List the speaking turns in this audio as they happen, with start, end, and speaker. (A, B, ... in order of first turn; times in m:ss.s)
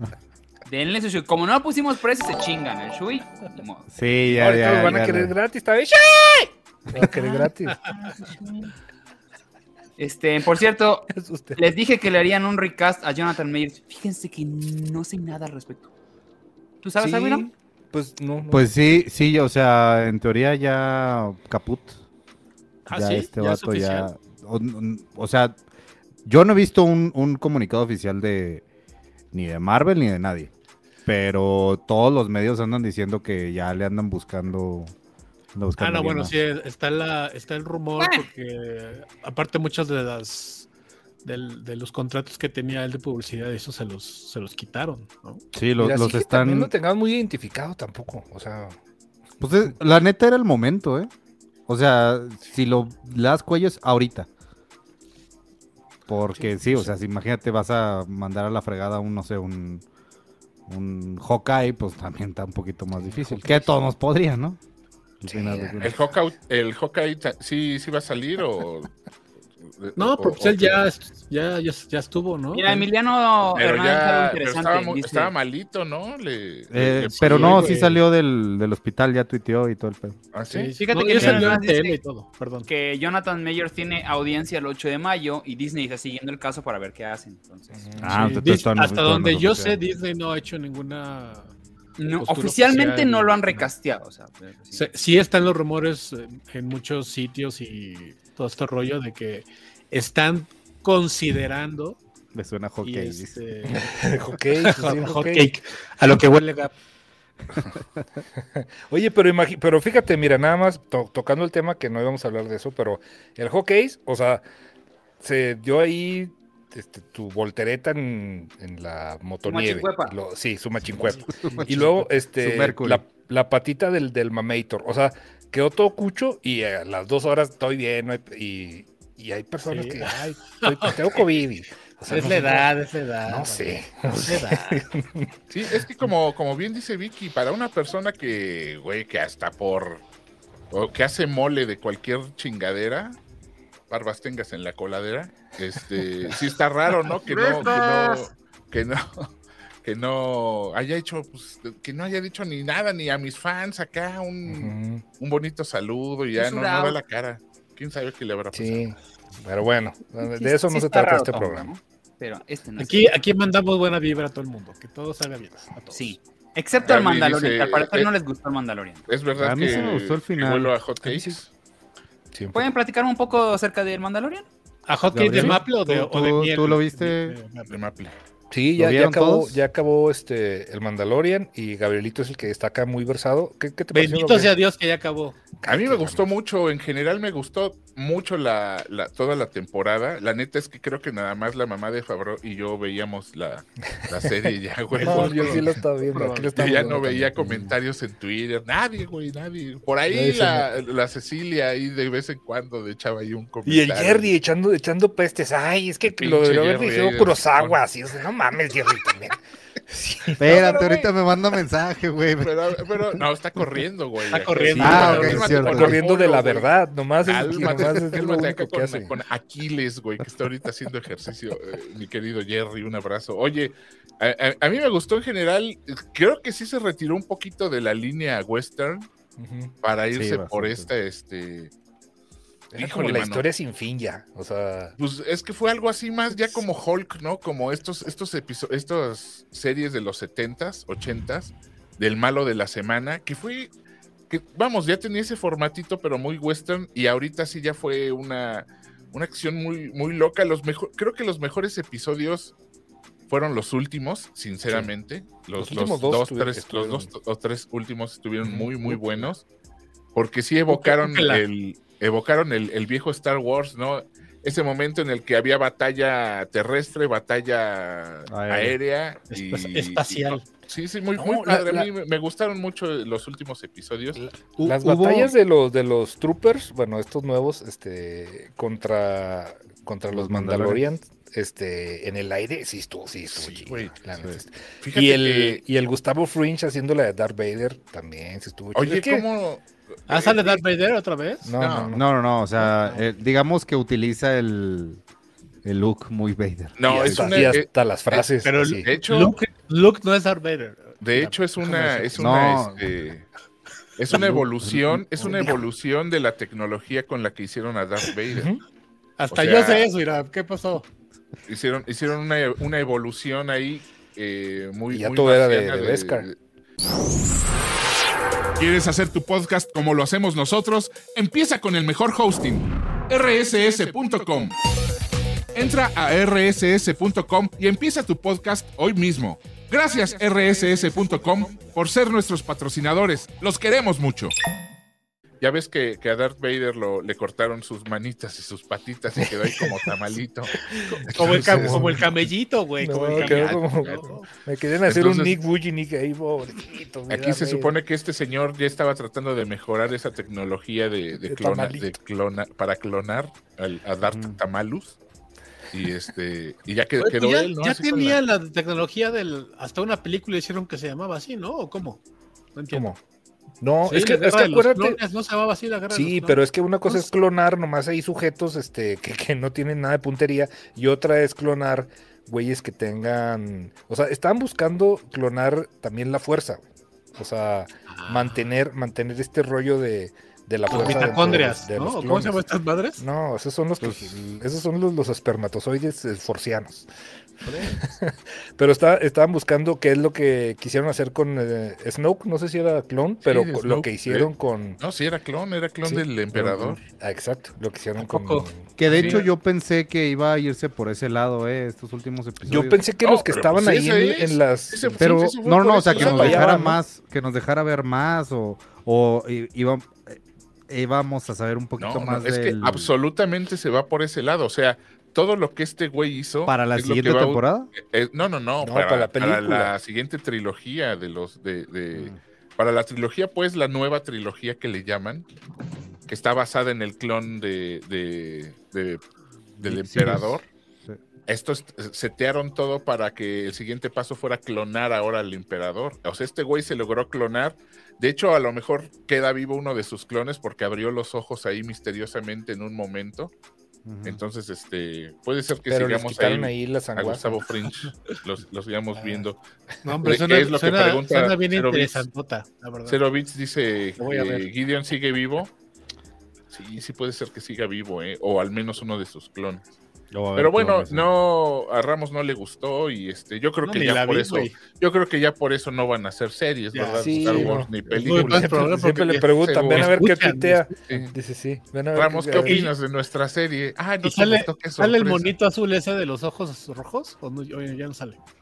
0:00.6-0:03.9 A
0:03.9-0:05.4 B
0:04.3-0:08.1 C
0:07.0-0:07.4 A
0:08.1-0:08.6 A
0:10.0-0:15.9 A
0:11.1-0:11.6 C
0:16.8-0:17.4 A
0:17.0-0:18.7 C
0:18.5-0:22.0 B
0:22.9-0:24.1 D
0:22.9-0:25.6 B
0:26.2-0:28.6 B
0:29.3-0:30.5 B
0:31.1-0:34.9 B
0:35.6-0:36.4 B
0:35.8-0:40.7 D
0:38.0-0:38.3 A
0:41.2-0:45.4 D
0:45.5-0:46.7 B
0:45.8-0:48.8 C
0:49.4-0:51.1 B
0:51.7-0:54.3 B
0:56.1-0:59.8 B
0:56.3-0:56.9 C
1:00.7-1:04.6 B
1:03.0-1:03.7 C
1:05.2-1:06.0 B
1:05.2-1:06.0 C
1:05.8-1:08.9 E
1:09.6-1:10.8 E
1:10.0-1:12.9 D
1:12.5-1:15.3 A
1:13.6-1:17.8 E
1:16.7-1:20.2 B
1:17.1-1:18.0 D
1:20.3-1:20.8 E
1:20.5-1:22.7 D
1:20.8-1:22.0 A
1:22.7-1:27.9 A
1:27.7-1:28.4 C
1:28.0-1:29.8 B
1:28.2-1:31.5 D
1:32.0-1:34.9 A
1:32.2-1:33.4 D
1:34.7-1:42.0 D
1:42.3-1:43.4 B
1:42.8-1:43.9 D
1:43.8-1:45.5 C
1:44.6-1:46.7 D
1:48.6-1:54.4 C
1:55.2-2:12.7 C
1:59.4-2:00.2 A
2:01.4-2:03.0 B
2:09.7-2:11.3 D
2:12.1-2:14.8 D
2:13.3-2:15.3 C
2:15.5-2:20.0 E
2:20.7-2:23.2 E
2:23.9-2:29.3 E
2:27.4-2:27.9 C
2:29.8-2:38.9 E
2:34.5-2:35.0 C
2:36.3-2:37.0 A
2:38.5-2:41.7 C
2:40.2-2:43.1 A
2:42.8-2:46.2 D
2:45.9-2:49.0 A
2:46.8-2:48.1 E
2:49.1-2:51.5 E
2:49.4-2:50.8 B
2:49.6-2:49.9 C
2:51.0-2:51.4 C
2:52.3-2:52.6 C
2:52.5-2:54.5 A
2:54.9-2:57.8 D
2:55.1-2:57.4 B
2:57.7-2:58.2 E
2:58.5-3:04.5 C
2:58.8-2:59.6 B
3:03.9-3:05.4 D
3:05.6-3:06.3 C
3:05.7-3:15.8 E
3:14.9-3:17.6 C
3:15.0-3:16.9 D
3:16.6-3:24.3 E
3:20.1-3:20.7 C
3:23.7-3:29.4 C
3:26.2-3:27.8 E
3:29.9-3:30.7 C
3:30.4-3:32.7 B
3:30.4-3:31.1 E
3:32.4-3:36.7 E
3:34.3-3:35.7 D
3:34.7-3:39.2 C
3:34.8-3:36.0 B
3:37.2-3:49.1 E
3:49.4-3:49.7 C
3:49.8-3:51.7 E
3:50.1-3:50.9 B
3:52.7-3:55.0 C
3:52.8-3:53.5 E
3:55.0-4:03.7 E
4:04.3-4:12.5 E
4:13.3-4:19.4 E
4:15.6-4:17.1 C
4:18.5-4:19.3 B
4:20.2-4:34.2 E
4:20.7-4:21.4 D
4:28.3-4:28.8 B
4:29.3-4:30.5 D
4:31.2-4:31.9 C
4:34.2-4:49.2 C
4:34.6-4:35.3 D
4:40.1-4:40.8 B
4:43.3-4:44.0 E
4:44.8-4:45.6 E
4:48.8-4:50.6 E
4:50.1-4:51.5 D
4:51.4-4:52.1 C
4:51.6-4:52.0 E
4:51.9-4:55.0 B
4:52.6-4:53.0 D
4:55.6-4:57.6 B
4:56.8-4:57.7 E
4:56.9-4:58.9 C
4:58.2-5:02.1 D
4:58.8-4:59.4 E
5:01.0-5:03.3 E
5:02.2-5:02.9 B
5:04.0-5:08.5 E
5:04.1-5:05.6 B
5:08.3-5:08.6 C
5:09.2-5:10.9 D
5:09.3-5:09.9 E
5:11.5-5:16.4 E
5:14.9-5:16.3 C
5:18.6-5:24.6 F
5:23.2-5:24.5 E
5:25.5-5:34.3 F
5:29.7-5:31.8 E
5:35.4-5:42.0 E
5:39.4-5:39.8 C
5:40.7-5:42.0 C
5:40.9-5:44.3 D
5:42.8-5:47.7 C
5:43.1-5:44.0 E
5:44.9-5:45.4 E
5:47.1-5:55.0 E
5:51.3-5:51.9 C
5:54.1-5:54.4 B
5:55.7-5:58.2 E
5:57.0-6:02.0 D
6:02.6-6:02.9 D
6:02.7-6:03.0 C
6:03.6-6:05.0 C
6:03.9-6:07.1 D
6:05.9-6:16.6 C
6:17.2-6:22.4 C
6:17.9-6:18.4 D
6:20.7-6:23.0 D
6:23.0-6:26.9 C
6:23.8-6:24.1 B
6:27.5-6:34.8 C
6:33.2-6:36.8 E
6:35.8-6:39.2 C
6:38.0-6:39.3 D
6:38.8-6:42.8 B
6:38.9-6:39.2 E
6:42.5-6:45.2 C
6:43.0-6:46.6 E
6:45.0-6:52.9 B
6:45.9-6:46.8 C
6:51.8-7:05.3 E
6:56.5-6:57.7 B
6:58.6-6:59.7 C
7:01.9-7:02.2 B
7:06.1-7:09.0 E
7:09.6-7:10.5 E
7:09.6-7:11.0 B
7:11.3-7:23.3 E
7:23.9-7:24.2 B
7:24.0-7:29.4 E
7:25.7-7:27.5 C
7:29.0-7:29.3 D
7:29.8-7:33.0 D
7:30.0-7:32.1 E
7:32.9-7:35.5 E
7:34.0-7:34.5 D
7:36.5-7:39.6 E
7:40.1-7:41.1 B
7:40.4-7:49.9 E
7:43.6-7:44.6 D
7:46.7-7:50.7 D
7:47.0-7:52.7 C
7:50.9-7:51.1 E
7:51.9-7:55.3 E
7:52.4-7:52.7 D
7:54.0-7:58.2 D